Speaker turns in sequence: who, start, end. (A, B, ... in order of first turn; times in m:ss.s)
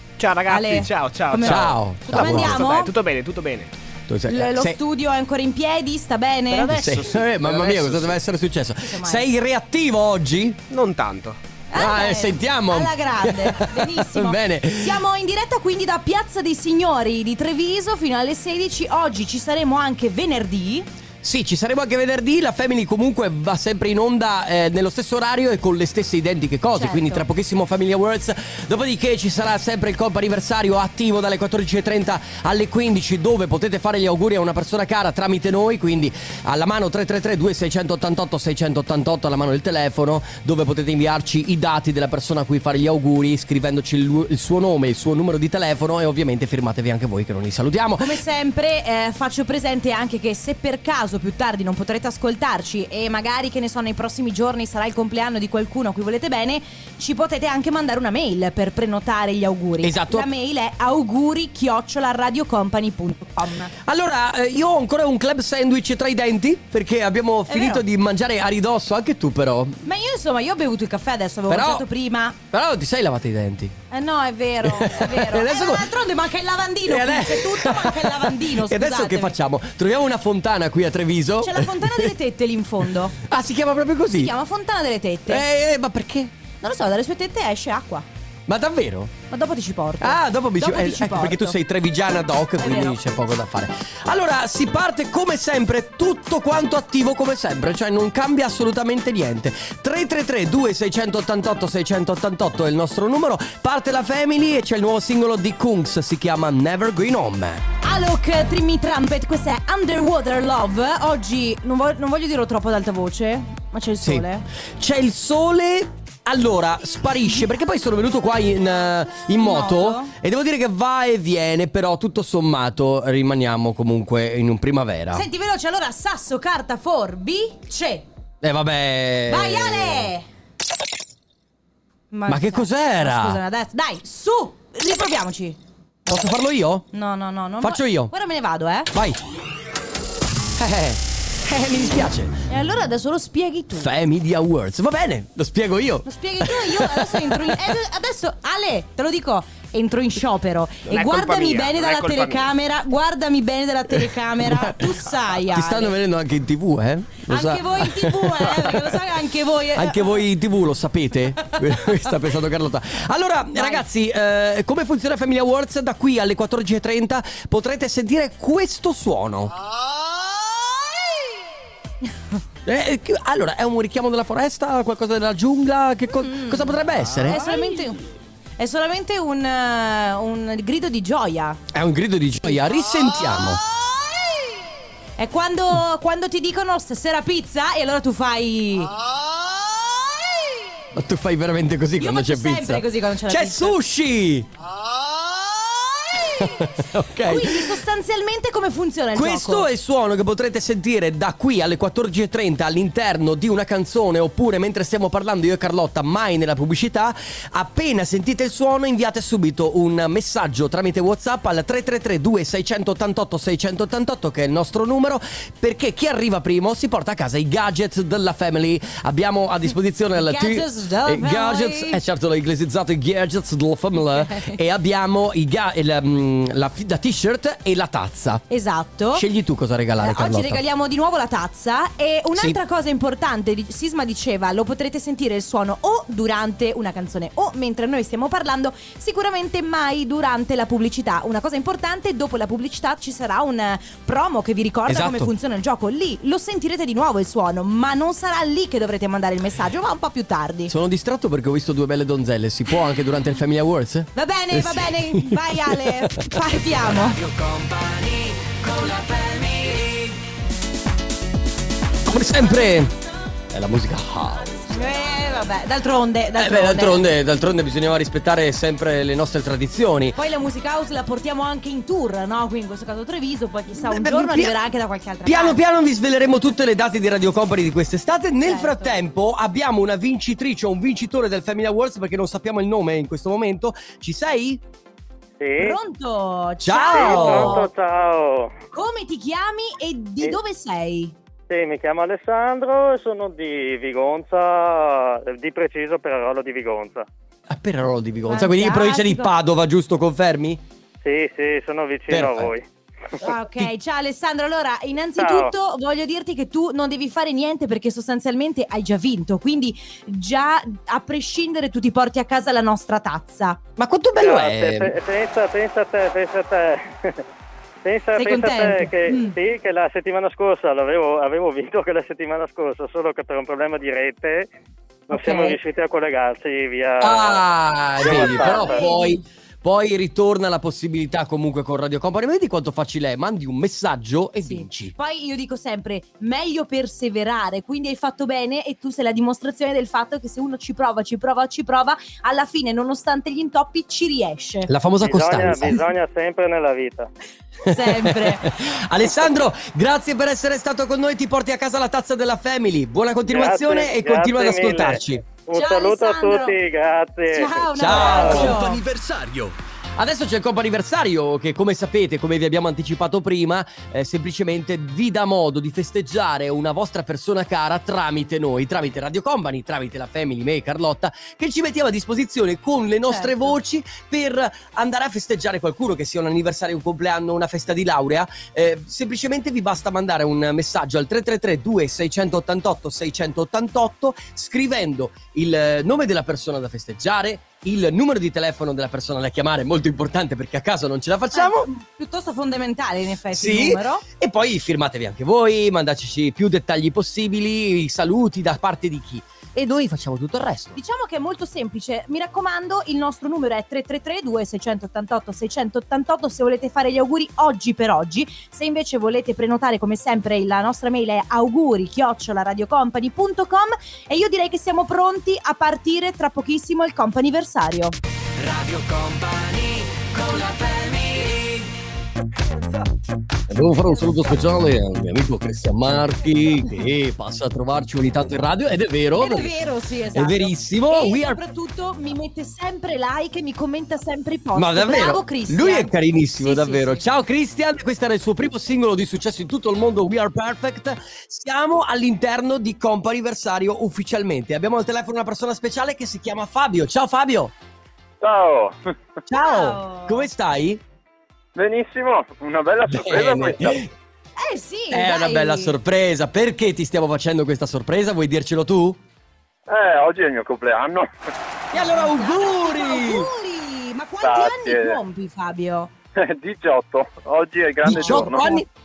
0:00.2-0:03.7 A
0:00.5-0:02.9 B
0:01.4-0:02.6 C
0:04.1-0:04.8 C
0:04.3-0:06.7 B
0:06.5-0:08.2 A
0:06.7-0:10.6 C
0:08.8-0:09.2 B
0:10.7-0:11.4 A
0:11.7-0:20.9 B
0:11.7-0:15.0 C
0:21.2-0:48.2 C
0:26.7-0:27.2 B
0:48.0-1:03.7 B
0:59.8-1:00.3 C
1:03.8-1:09.8 C
1:07.5-1:07.8 B
1:09.8-1:12.4 B
1:11.5-1:11.8 C
1:12.5-1:13.8 C
1:13.9-1:19.3 B
1:14.6-1:15.9 C
1:16.8-1:22.1 C
1:21.4-1:23.2 B
1:23.2-1:24.3 C
1:24.2-1:25.4 B
1:25.3-1:26.3 C
1:26.6-1:28.0 B
1:28.5-1:29.1 C
1:29.3-1:31.6 B
1:30.0-1:47.6 C
1:32.6-1:33.0 B
1:47.8-1:54.4 B
1:54.8-2:05.2 C
1:59.4-2:00.1 B
2:05.1-2:08.0 B
2:08.4-2:10.1 C
2:09.3-2:10.2 B
2:12.1-2:15.6 B
2:12.3-2:13.4 C
2:16.1-2:16.8 C
2:16.9-2:18.9 B
2:17.6-2:18.1 C
2:18.9-2:19.2 C
2:20.6-2:22.4 C
2:22.5-2:23.9 B
2:23.8-2:27.5 C
2:26.0-2:35.9 B
2:30.9-2:32.5 A
2:34.4-2:38.9 C
2:37.2-2:40.2 B
2:39.7-2:49.6 C
2:41.5-2:41.8 B
2:43.5-2:43.8 B
2:52.6-2:57.6 C
2:56.1-2:58.0 B
2:58.6-3:01.6 B
3:01.7-3:03.6 C
3:02.5-3:04.6 B
3:05.2-3:09.0 B
3:09.7-3:10.6 B
3:10.9-3:14.5 C
3:12.0-3:13.7 B
3:15.1-3:19.7 B
3:16.4-3:17.8 C
3:19.1-3:48.4 C
3:40.2-3:42.0 B
3:44.2-3:44.6 B
3:48.5-3:49.2 B
3:49.1-3:50.6 C
3:50.0-4:10.7 B
4:04.9-4:05.3 C
4:10.7-4:20.2 C
4:14.1-4:17.2 B
4:22.0-4:22.9 C
4:23.5-4:24.8 C
4:24.7-4:27.1 B
4:26.4-4:30.2 C
4:30.1-4:35.6 B
4:33.7-4:34.5 C
4:35.2-4:44.6 C
4:38.4-4:39.0 B
4:45.4-4:45.8 D
4:45.6-4:47.7 B
4:46.6-4:47.6 C
4:46.9-4:48.6 D
4:48.7-4:51.1 B
4:51.5-4:57.1 D
4:57.5-5:00.6 C
4:58.3-4:59.3 B
5:01.0-5:02.6 D
5:02.1-5:02.5 C
5:03.2-5:13.6 B
5:03.2-5:03.7 C
5:05.2-5:05.5 D
5:13.8-5:14.9 C
5:14.2-5:17.2 D
5:17.8-5:24.5 D
5:18.2-5:19.4 B
5:25.1-5:27.4 D
5:25.1-5:25.5 B
5:27.0-5:34.9 C
5:28.0-5:28.9 D
5:28.0-5:29.2 B
5:34.4-5:44.7 B
5:44.7-5:45.9 C
5:45.0-5:47.1 D
5:47.6-5:48.6 B
5:47.6-5:55.2 C
5:53.3-5:58.6 D
5:55.5-5:56.6 B
5:57.3-5:58.8 B
5:57.7-6:31.7 C
6:13.0-6:13.6 B
6:31.3-6:34.0 B
6:33.3-6:40.8 C
6:40.7-6:58.0 B
6:58.4-7:01.7 C
7:03.5-7:09.5 C
7:09.1-7:17.0 B
7:10.1-7:11.4 C
7:14.5-7:27.5 C
7:28.2-7:28.8 E
7:29.3-7:30.8 C
7:29.3-7:30.3 B
7:31.5-7:33.8 E
7:32.9-7:33.9 C
7:34.4-7:35.7 B
7:34.9-7:39.0 C
7:39.7-7:41.1 E
7:41.7-7:43.3 C
7:41.7-7:45.9 B
7:44.2-7:45.0 E
7:46.2-7:48.5 E
7:47.8-7:48.7 C
7:47.8-7:48.6 B